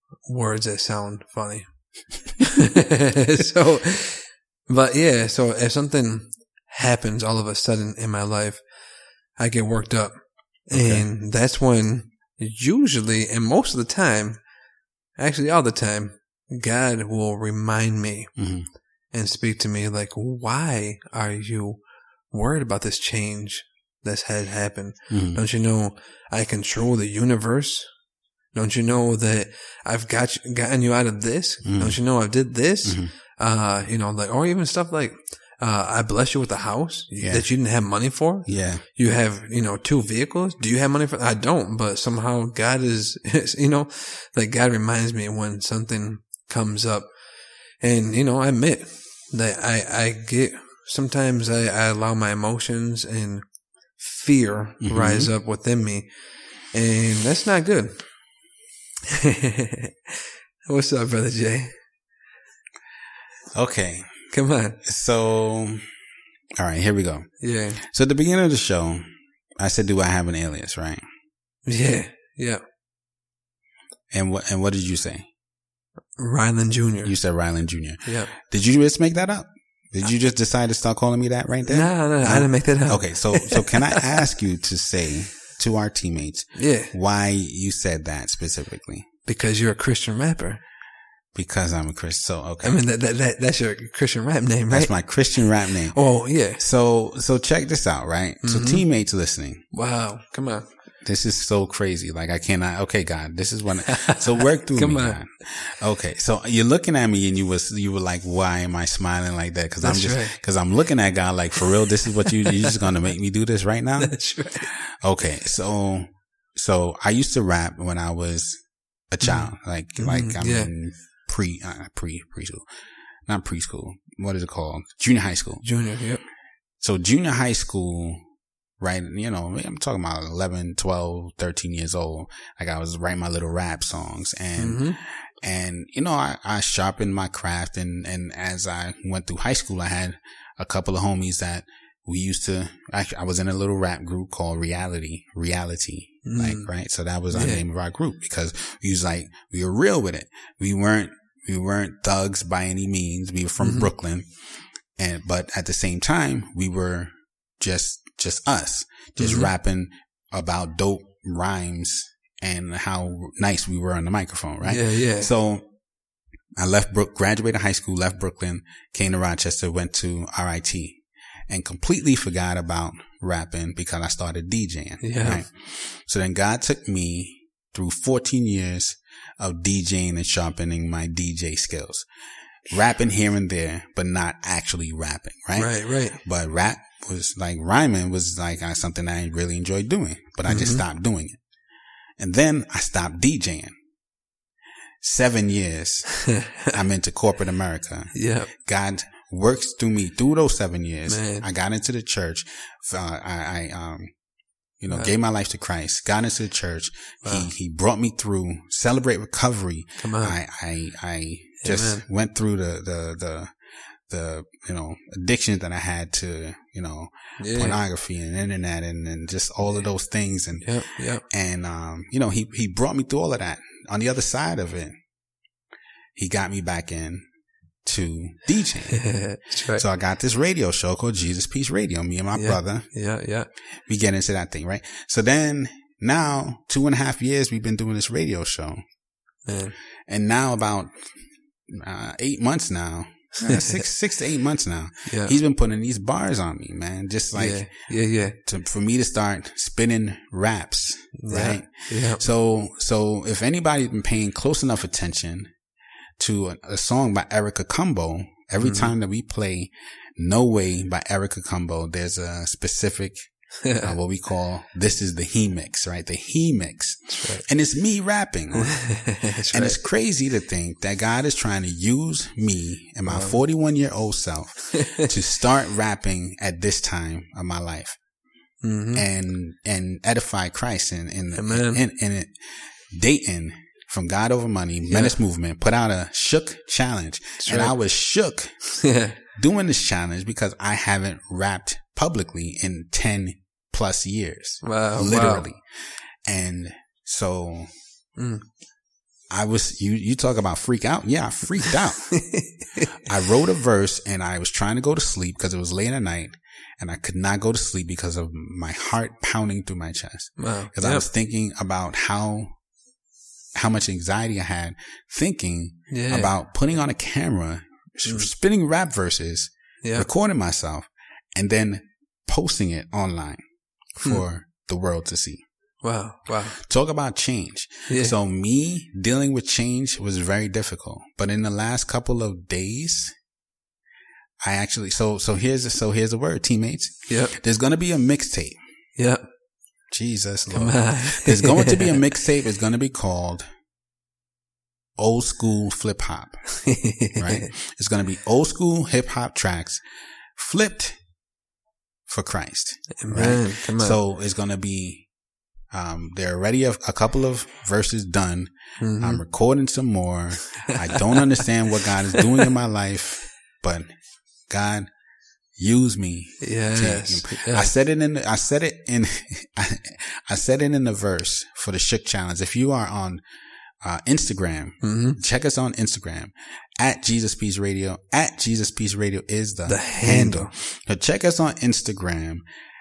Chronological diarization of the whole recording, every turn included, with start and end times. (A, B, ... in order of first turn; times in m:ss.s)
0:00.2-0:08.6 A
0:09.4-0:14.4 A
0:10.7-0:11.1 B
0:15.2-0:18.3 A
0:18.4-0:18.7 B
0:19.1-0:27.9 A
0:25.1-0:25.4 B
0:28.5-0:47.1 A
0:31.6-0:32.0 B
0:32.8-0:33.1 B
0:37.2-0:37.5 B
0:38.4-0:38.8 B
0:47.8-0:53.4 A
0:54.0-0:56.1 A
0:54.8-0:55.3 B
0:56.7-0:58.0 A
0:59.1-1:00.1 A
1:00.6-1:01.7 A
1:03.5-1:04.2 B
1:04.3-1:04.8 A
1:04.8-1:05.8 B
1:06.6-1:07.3 B
1:07.4-1:07.8 A
1:07.8-1:09.0 B
1:09.6-1:11.0 B
1:11.6-1:12.6 A
1:14.1-1:15.3 B
1:16.2-1:17.1 A
1:17.0-1:29.0 B
1:18.0-1:18.3 A
1:21.6-1:24.1 A
1:26.6-1:26.9 A
1:29.2-1:30.6 A
1:31.3-1:32.8 B
1:32.6-1:35.0 A
1:34.7-1:36.0 B
1:35.9-1:36.6 A
1:36.6-1:39.6 B
1:38.4-1:38.9 A
1:39.7-1:40.7 A
1:41.0-1:58.6 B
1:43.8-1:45.2 A
1:49.8-1:50.4 A
1:52.4-1:52.7 A
1:54.0-1:54.7 A
1:59.1-2:02.6 B
1:59.2-2:00.7 A
2:03.3-2:05.6 B
2:05.6-2:06.2 A
2:06.8-2:08.2 B
2:08.8-2:34.3 B
2:14.6-2:15.0 A
2:26.2-2:26.7 A
2:27.3-2:27.6 A
2:33.6-2:33.9 A
2:35.0-2:45.6 B
2:39.2-2:39.5 A
2:44.6-2:45.3 A
2:46.6-3:02.0 B
2:55.0-2:55.4 A
3:02.7-3:11.4 B
3:05.6-3:06.2 A
3:10.5-3:10.8 A
3:12.2-3:13.7 B
3:15.0-3:24.1 B
3:18.1-3:18.5 A
3:21.1-3:21.5 A
3:24.8-3:33.5 B
3:27.2-3:27.5 A
3:30.0-3:30.4 A
3:31.6-3:32.0 A
3:34.1-3:44.9 B
3:37.4-3:37.8 A
3:40.6-3:41.2 A
3:46.2-3:47.2 B
3:47.8-3:52.9 B
3:48.9-3:49.8 A
3:52.3-3:53.5 A
3:53.9-3:58.8 B
3:59.5-3:59.7 A
4:00.1-4:01.1 B
4:01.7-4:07.7 B
4:03.4-4:03.8 A
4:05.1-4:05.4 A
4:07.3-4:08.4 A
4:08.4-4:15.5 B
4:11.2-4:12.2 A
4:16.2-4:23.2 B
4:18.6-4:18.9 A
4:23.6-4:23.9 A
4:23.7-4:28.8 B
4:27.1-4:27.4 A
4:28.5-4:29.8 A
4:29.4-4:38.0 B
4:33.1-4:33.4 A
4:34.7-4:35.1 A
4:38.6-4:39.0 A
4:38.9-4:42.3 B
4:41.3-4:41.8 A
4:42.9-4:48.5 B
4:44.9-4:45.2 A
4:47.4-4:47.7 A
4:48.8-4:49.2 A
4:49.4-4:55.6 B
4:54.6-4:55.5 A
4:56.2-4:57.7 B
4:58.2-4:58.4 A
4:59.3-5:02.1 B
5:01.6-5:02.9 A
5:03.0-5:12.5 B
5:10.4-5:11.0 A
5:13.6-5:23.4 B
5:15.9-5:16.3 A
5:19.8-5:20.1 A
5:24.0-5:25.4 B
5:25.8-5:26.6 A
5:26.6-5:33.1 B
5:27.9-5:28.2 A
5:34.4-5:38.6 B
5:37.1-5:37.4 A
5:39.0-5:39.2 A
5:39.9-5:43.5 B
5:40.5-5:42.1 A
5:45.0-5:46.4 B
5:46.6-5:47.5 A
5:47.2-5:49.8 B
5:50.4-5:51.0 B
5:52.1-5:55.1 B
5:53.0-5:54.0 A
5:55.7-6:03.9 B
5:58.8-5:59.2 A
6:00.7-6:01.2 A
6:04.5-6:04.9 B
6:05.6-6:13.2 B
6:06.4-6:07.7 A
6:13.8-6:22.4 B
6:14.8-6:15.2 A
6:19.6-6:20.5 A